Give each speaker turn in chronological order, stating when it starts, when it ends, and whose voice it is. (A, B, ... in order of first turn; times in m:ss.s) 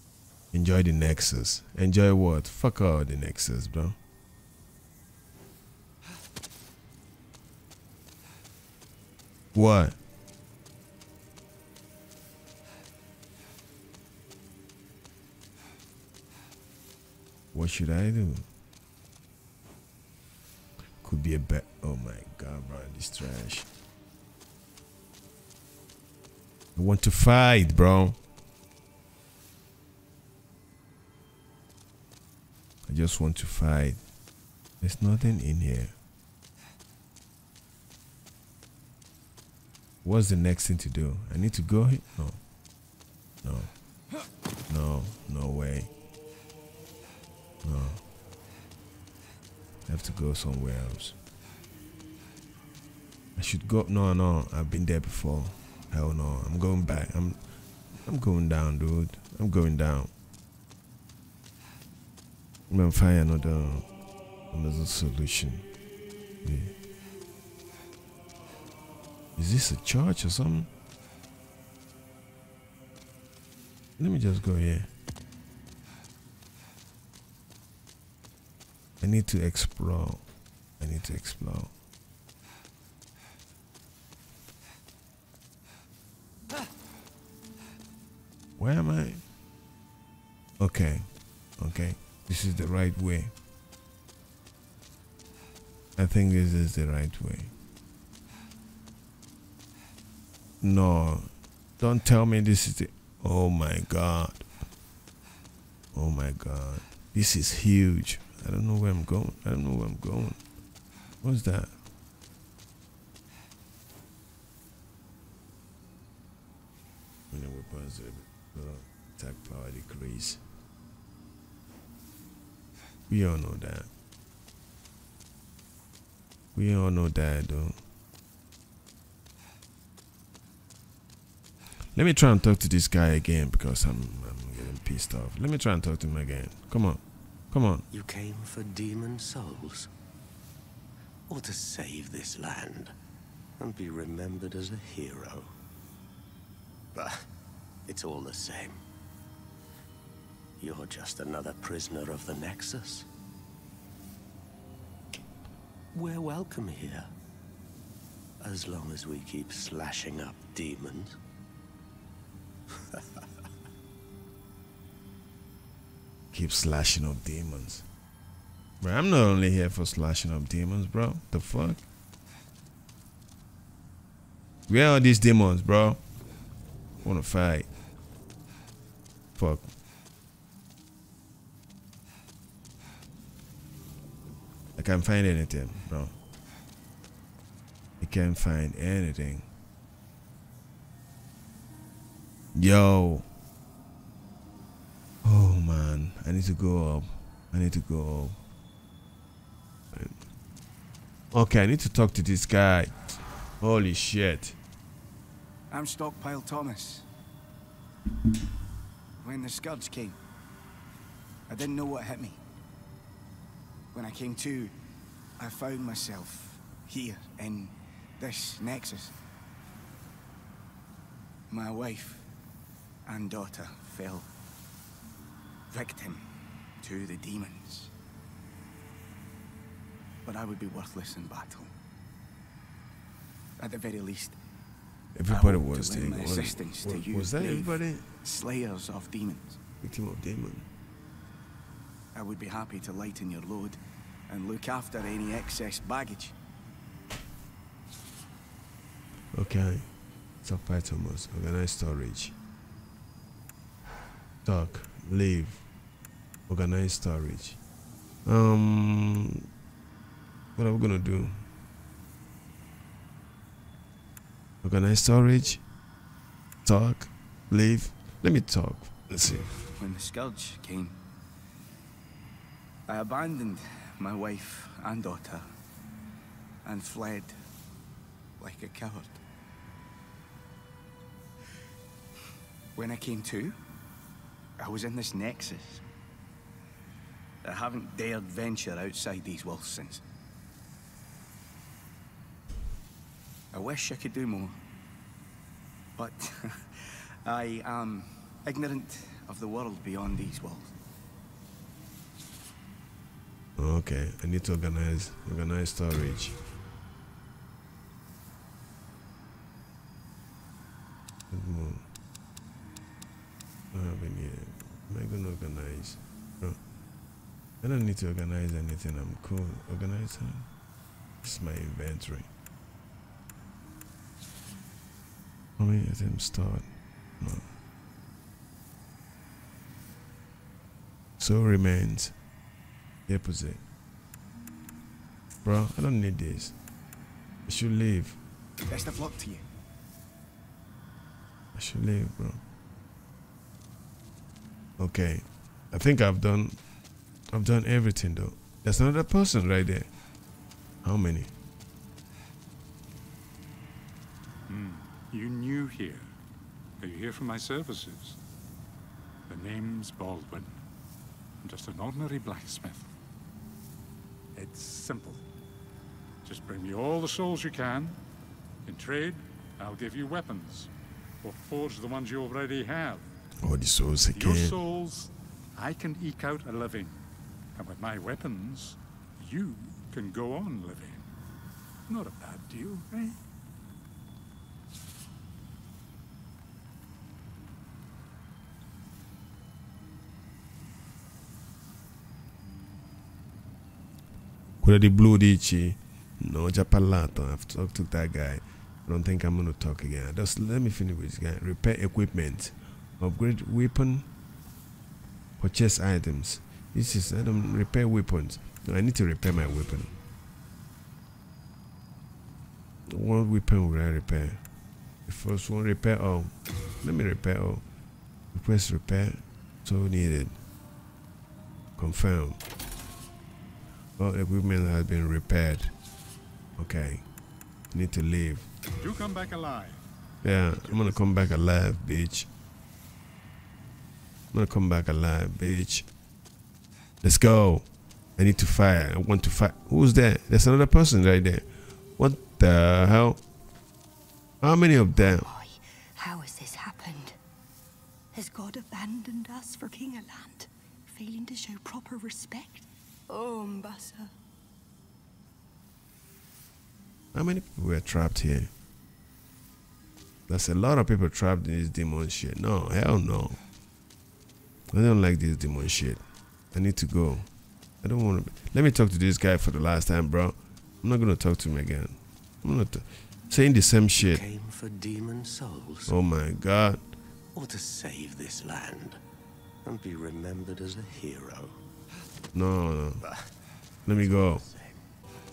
0:00.5-0:04.0 A
0:09.5-0:10.0 A
0:17.5-0:18.4 A
0:21.0-0:23.7 A
0:26.7-0:28.2 A
0:32.9-0:34.0 A
0:34.8-0:35.9 A
0:40.0-0:42.4 A
0:43.4-0:43.7 A
0:44.7-0:45.9 A
0:47.6-0:48.0 A
0:49.9-0:51.1 A
0:53.4-0:57.4 A
0:58.0-1:00.1 A
1:02.7-1:03.8 A
1:04.5-1:05.6 A
1:06.4-1:06.7 A
1:09.4-1:10.7 A
1:14.0-1:14.9 A
1:19.0-1:20.2 A
1:20.8-1:21.7 A
1:28.6-1:29.2 A
1:30.6-1:33.3 A
1:36.0-1:37.5 A
1:40.6-1:44.4 A
1:45.9-1:50.4 A
1:51.2-1:51.7 A
1:57.3-2:00.4 A
2:03.1-2:03.9 A
2:06.5-2:07.8 A
2:11.9-2:17.8 A
2:17.9-2:19.9 B
2:21.3-2:22.9 B
2:23.6-2:25.5 B
2:26.9-2:27.2 B
2:27.9-2:28.8 B
2:30.6-2:33.1 B
2:35.9-2:37.1 B
2:38.4-2:41.2 B
2:46.3-2:47.8 A
2:48.8-2:51.8 A
2:54.7-2:56.0 A
2:57.0-2:57.7 A
2:59.4-2:59.7 A
3:04.8-3:06.1 A
3:08.0-3:09.5 A
3:12.5-3:13.3 A
3:15.2-3:18.4 A
3:19.9-3:20.2 A
3:21.3-3:24.6 A
3:25.7-3:27.0 C
3:29.2-3:30.2 C
3:31.5-3:32.4 C
3:33.9-3:34.7 C
3:35.4-3:39.1 C
3:41.5-3:42.2 C
3:43.0-3:44.3 C
3:45.7-3:46.2 C
3:46.8-3:47.9 C
3:50.2-3:51.7 C
3:53.6-3:54.4 C
3:55.1-3:58.0 A
3:55.3-3:59.6 C
3:59.8-4:00.6 A
4:02.1-4:06.3 C
4:09.3-4:09.9 A
4:10.4-4:12.4 A
4:14.4-4:15.6 A
4:16.5-4:17.6 A
4:18.2-4:19.4 A
4:20.6-4:21.4 A
4:24.6-4:25.6 A
4:26.6-4:29.5 A
4:29.8-4:31.0 C
4:32.9-4:35.4 C
4:36.6-4:37.3 C
4:38.4-4:39.2 C
4:42.8-4:43.6 C
4:44.6-4:45.8 C
4:47.4-4:50.0 C
4:53.5-4:54.6 C
4:56.0-5:00.7 C
5:03.6-5:06.4 A
5:11.3-5:11.8 A
5:13.7-5:16.6 A
5:17.6-5:20.5 A
5:21.2-5:22.3 A
5:25.6-5:26.6 A
5:27.2-5:27.4 A
5:31.2-5:32.1 A
5:33.1-5:33.6 A
5:35.4-5:36.5 A
5:37.5-5:38.2 A
5:38.7-5:39.4 C
5:41.5-5:42.4 A
5:44.8-5:46.6 A
5:47.3-5:49.9 A
5:50.8-5:51.3 A
5:54.5-5:56.1 D
5:56.8-5:58.2 D
5:59.3-6:00.6 D
6:01.4-6:02.9 D
6:04.3-6:05.2 D
6:06.2-6:08.0 D
6:08.6-6:10.7 D
6:11.2-6:13.0 D
6:13.4-6:14.6 A
6:14.1-6:17.0 D
6:17.5-6:21.1 D
6:21.9-6:23.2 D
6:34.6-6:44.1 A
6:45.4-6:49.9 A
6:52.9-6:54.4 A
6:55.0-6:57.6 A
6:58.3-7:00.4 A
7:01.8-7:02.4 A
7:04.0-7:05.7 A
7:06.6-7:07.0 A
7:07.7-7:08.5 A
7:08.8-7:09.8 D
7:10.2-7:12.3 A
7:10.5-7:11.1 D
7:14.3-7:15.8 A
7:17.0-7:23.2 A
7:24.4-7:25.3 A
7:24.9-7:27.2 E
7:28.1-7:34.1 E
7:37.1-7:38.5 A
7:40.3-7:43.4 A
7:44.7-7:47.3 A
7:47.8-7:54.2 A
7:54.0-7:55.9 B
7:55.9-7:56.8 A
7:57.3-7:59.0 B
7:59.6-8:01.5 B
8:02.3-8:03.0 A
8:03.8-8:04.4 A
8:04.0-8:04.8 B